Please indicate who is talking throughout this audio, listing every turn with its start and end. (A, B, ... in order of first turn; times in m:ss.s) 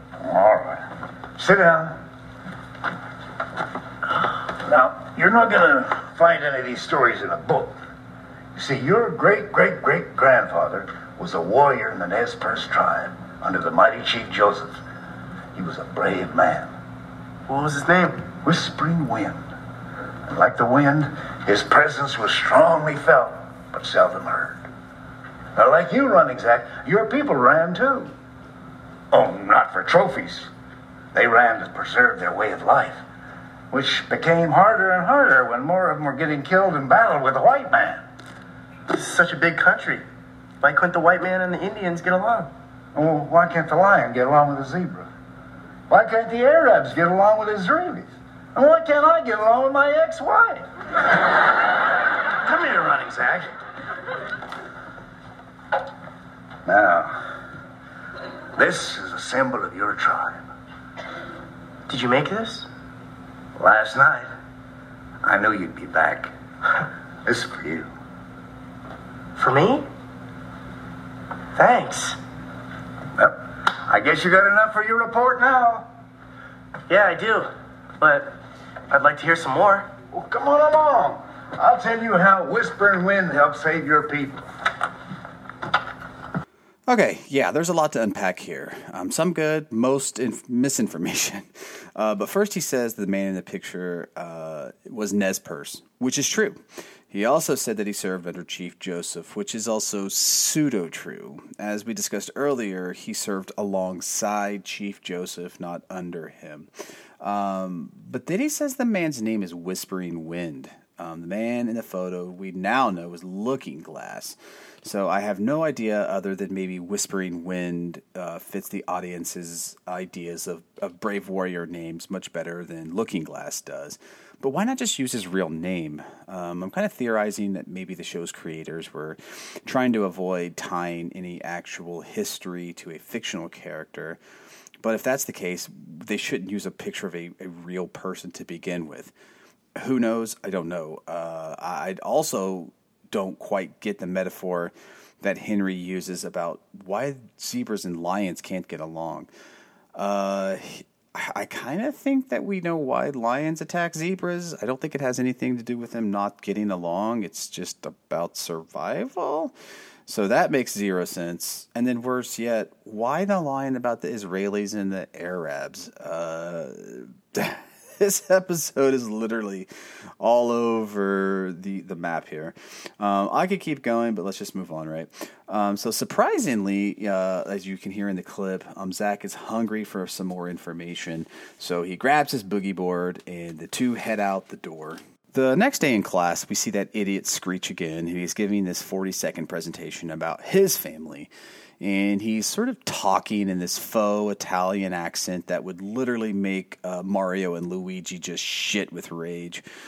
0:00.2-0:02.0 A
0:04.6-0:07.8 A
0:08.5-0:14.8 A
0:15.5-0:16.7 A
0:17.5-0:18.3 B
0:18.4-0:19.4 A
0:20.3-0:24.6 A
0:25.5-0:28.1 A
0:29.1-0:30.5 A
0:31.1-0:33.0 A
0:33.7-0:38.0 A
0:38.9-0:40.0 B
0:40.6-0:42.5 B
0:42.9-0:45.1 A
0:45.9-0:50.6 A
0:52.4-0:53.5 A
0:56.6-0:57.3 A
0:58.5-1:00.4 A
1:01.9-1:02.7 B
1:03.6-1:04.3 A
1:05.2-1:06.3 A
1:07.2-1:07.9 A
1:09.4-1:09.9 B
1:11.5-1:12.2 B
1:13.2-1:15.9 A
1:16.9-1:18.4 B
1:18.9-1:19.9 B
1:20.1-1:24.4 A
1:26.9-1:36.6 C
1:37.1-2:14.2 C
2:14.8-2:19.1 C
2:19.8-2:29.3 C
2:29.9-2:39.5 C
2:40.1-2:49.7 C
2:50.2-3:19.6 C